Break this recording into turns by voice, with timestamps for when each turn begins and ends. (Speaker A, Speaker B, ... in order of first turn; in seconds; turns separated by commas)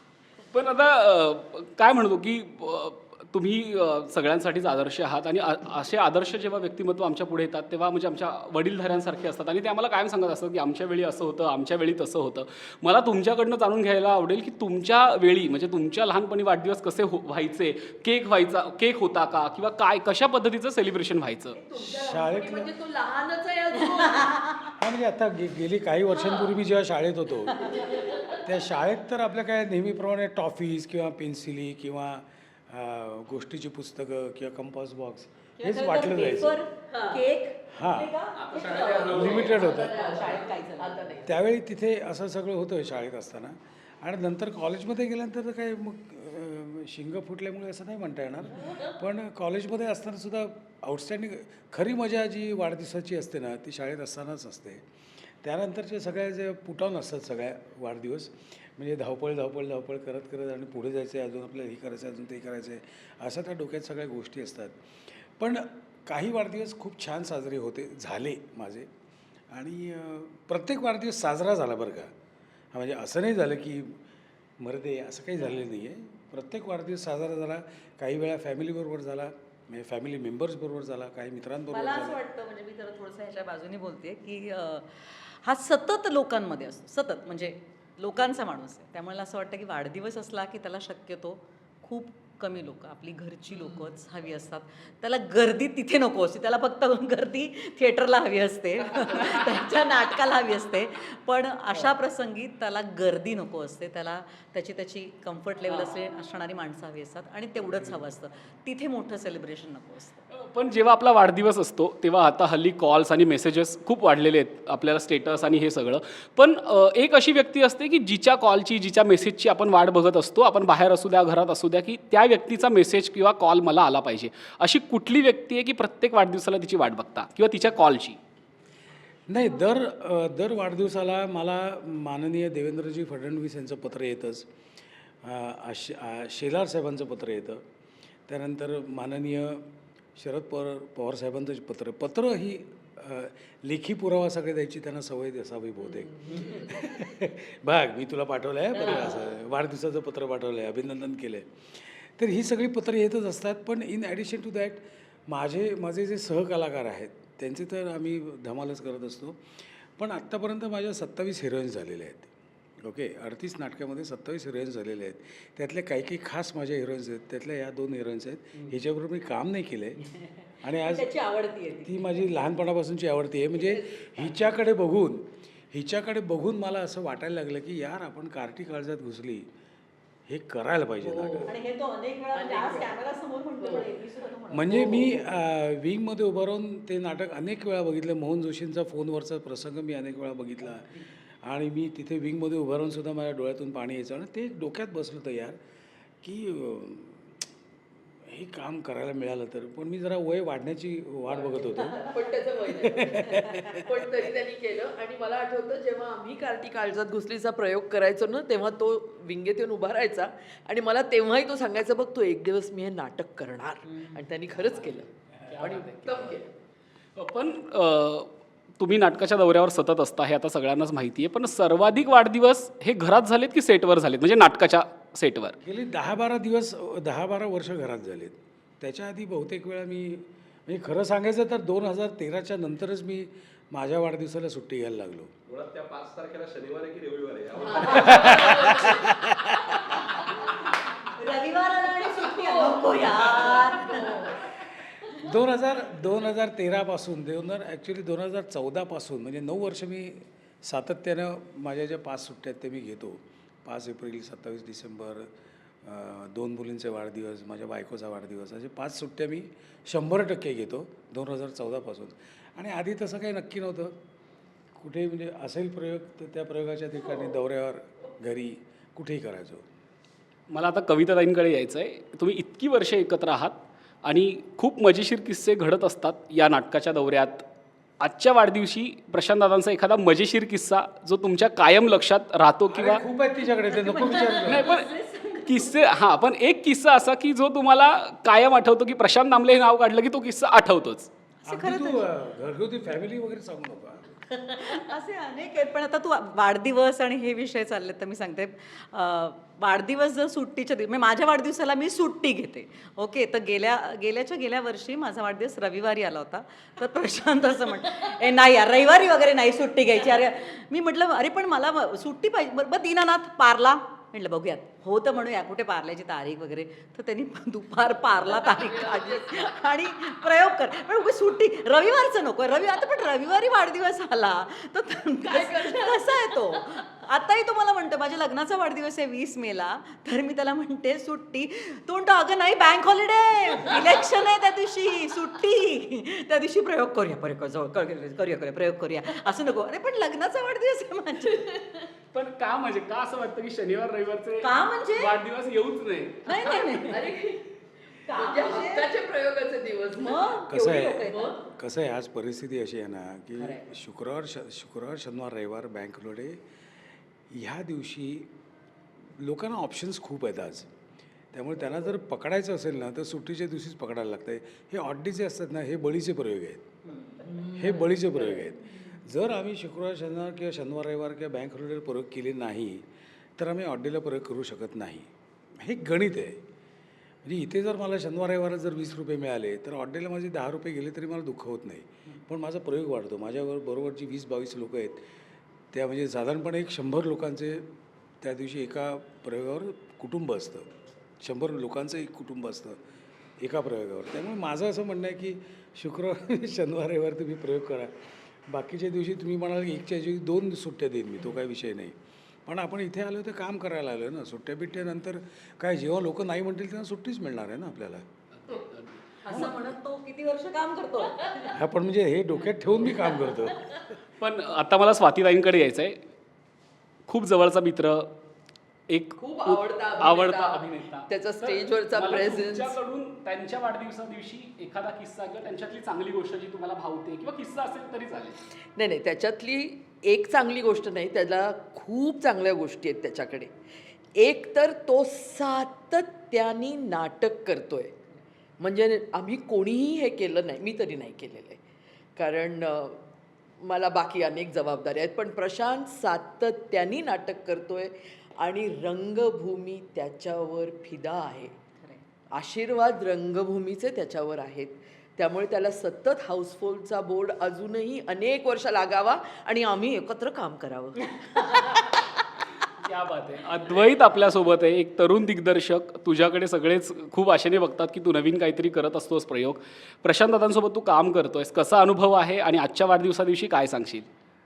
Speaker A: 0.5-21.6, Speaker B: 21.6-24.4, Speaker C: 21.8-22.7, Speaker D: 24.2-24.7, Speaker C: 24.7-36.6, Speaker D: 27.5-28.4, Speaker D: 35.6-41.2, Speaker B: 36.9-37.2, Speaker C: 37.7-38.1, Speaker A: 38.4-39.5, Speaker B: 38.9-41.3, Speaker C: 39.1-40.0, Speaker C: 41.2-54.8, Speaker C: 55.4-68.9, Speaker C: 69.5-72.1, Speaker C: 72.7-74.0, Speaker C: 74.6-82.2, Speaker D: 81.7-110.2, Speaker B: 93.5-93.9, Speaker A: 110.3-128.2, Speaker C: 129.3-134.5, Speaker C: 135.2-137.6, Speaker C: 138.3-159.4, Speaker B: 146.2-146.6, Speaker C: 160.0-162.3, Speaker C: 162.8-170.0, Speaker C: 170.6-171.1, Speaker D: 170.8-172.1, Speaker C: 171.8-179.5, Speaker B: 173.6-174.2, Speaker C: 180.3-181.6, Speaker B: 181.0-181.6, Speaker D: 181.5-184.8, Speaker B: 182.3-183.0, Speaker B: 183.6-183.9, Speaker C: 184.5-195.6, Speaker B: 184.7-185.2, Speaker C: 196.2-197.4, Speaker C: 198.3-202.0, Speaker B: 201.3-215.1, Speaker D: 201.8-202.1, Speaker C: 202.8-203.8, Speaker D: 203.2-203.8, Speaker A: 214.6-216.4, Speaker B: 215.6-216.5, Speaker A: 217.2-225.6, Speaker C: 225.6-235.3, Speaker E: 235.5-239.0, Speaker D: 237.8-238.2, Speaker C: 237.9-239.7, Speaker B: 238.3-238.7, Speaker D: 239.8-240.5, Speaker D: 241.1-244.4, Speaker B: 243.3-244.4, Speaker C: 245.1-255.3, Speaker C: 255.8-264.0, Speaker C: 264.8-269.6, Speaker A: 270.5-277.5, Speaker A: 278.0-283.0, Speaker C: 282.7-284.7, Speaker D: 283.5-285.9, Speaker A: 284.4-284.9, Speaker A: 285.4-291.1, Speaker D: 291.4-292.1, Speaker C: 291.5-294.2, Speaker D: 294.3-341.8, Speaker B: 318.2-319.4, Speaker B: 325.2-326.4, Speaker A: 342.1-346.5, Speaker D: 344.4-345.1, Speaker D: 346.3-347.1, Speaker B: 346.7-347.5, Speaker D: 348.1-348.9, Speaker B: 348.1-351.4, Speaker D: 349.9-351.5, Speaker C: 350.5-356.4, Speaker C: 357.3-358.3, Speaker C: 359.2-360.7, Speaker C: 361.3-366.7, Speaker B: 367.2-368.2, Speaker C: 367.5-372.9, Speaker C: 373.4-376.4, Speaker C: 377.2-385.1, Speaker C: 385.7-387.7, Speaker C: 388.2-390.7, Speaker C: 391.2-392.8, Speaker C: 393.4-408.1, Speaker A: 408.3-409.5, Speaker D: 409.3-411.6, Speaker C: 411.5-413.9, Speaker D: 413.1-413.4, Speaker A: 414.2-416.0, Speaker A: 417.1-418.1, Speaker A: 418.9-428.4, Speaker B: 419.2-422.8, Speaker B: 428.8-433.5, Speaker B: 434.2-437.9, Speaker B: 438.6-441.6, Speaker B: 442.2-443.0, Speaker B: 443.6-451.6, Speaker B: 452.3-461.9, Speaker D: 461.1-461.7, Speaker A: 462.8-474.1